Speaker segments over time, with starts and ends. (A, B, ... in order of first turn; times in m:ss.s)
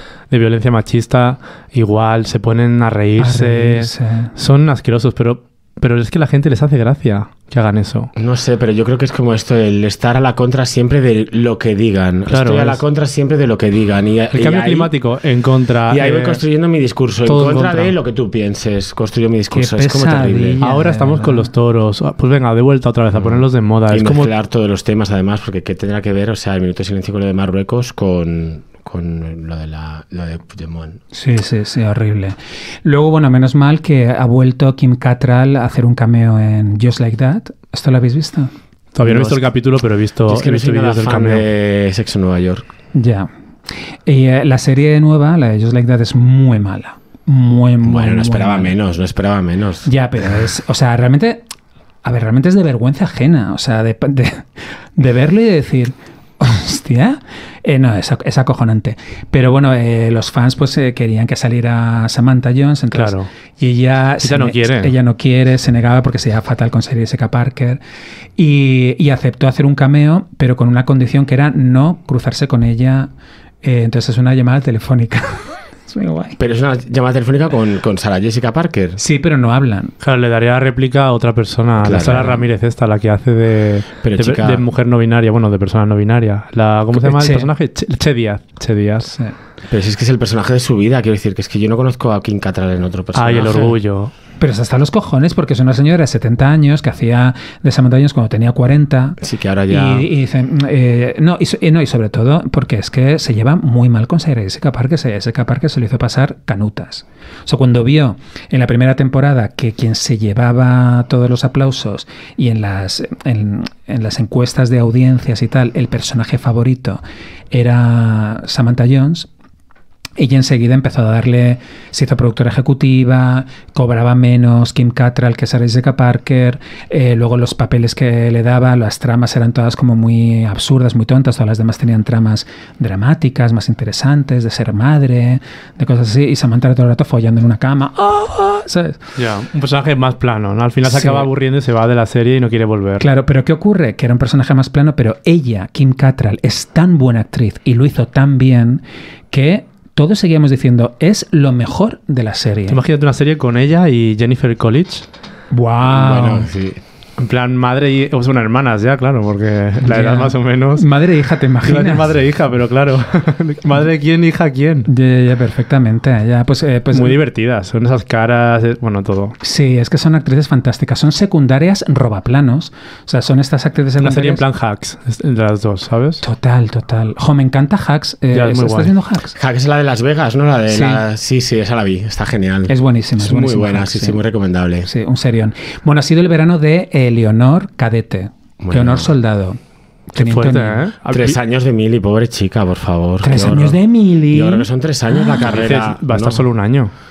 0:00.3-0:08.1 A
0:03.2-0:04.3 B
0:08.2-0:14.9 C
0:12.3-0:12.8 A
0:14.3-0:16.4 A
0:15.9-0:20.6 C
0:17.2-0:17.9 A
0:19.5-0:21.5 B
0:20.6-0:24.3 A
0:23.1-0:31.0 C
0:31.1-0:38.5 B
0:38.9-0:41.4 A
0:39.0-0:39.5 C
0:40.2-0:42.6 C
0:42.9-0:43.3 B
0:44.0-0:48.7 B
0:47.8-0:49.9 C
0:49.8-0:51.4 B
0:52.0-1:07.8 B
1:02.9-1:03.3 A
1:04.2-1:04.9 A
1:08.4-1:13.1 B
1:13.6-1:16.4 B
1:16.4-1:19.0 C
1:19.0-1:19.9 B
1:20.0-1:29.1 A
1:21.8-1:22.4 C
1:22.0-1:22.4 B
1:24.0-1:24.6 C
1:27.0-1:27.5 B
1:29.0-1:29.3 B
1:29.7-1:33.7 C
1:33.1-1:34.1 A
1:34.4-1:39.2 B
1:39.2-1:40.1 C
1:39.7-1:59.3 B
2:00.2-2:19.0 B
2:19.2-2:23.0 A
2:20.8-2:21.3 B
2:23.0-2:32.8 B
2:32.7-2:35.1 A
2:35.5-2:36.5 B
2:35.8-2:36.8 C
2:37.2-2:40.9 A
2:39.8-2:42.1 B
2:41.6-2:44.9 A
2:44.9-2:47.2 B
2:46.9-2:49.4 A
2:49.4-2:54.4 B
2:54.0-2:56.2 A
2:56.2-2:59.4 B
2:58.3-2:58.9 A
2:59.4-3:04.9 C
3:00.7-3:01.0 B
3:02.7-3:04.2 B
3:04.8-3:09.6 B
3:08.6-3:09.1 C
3:10.1-3:10.9 B
3:10.1-3:11.4 A
3:11.0-3:13.8 C
3:13.2-3:15.5 B
3:14.3-3:16.4 C
3:15.4-3:16.9 A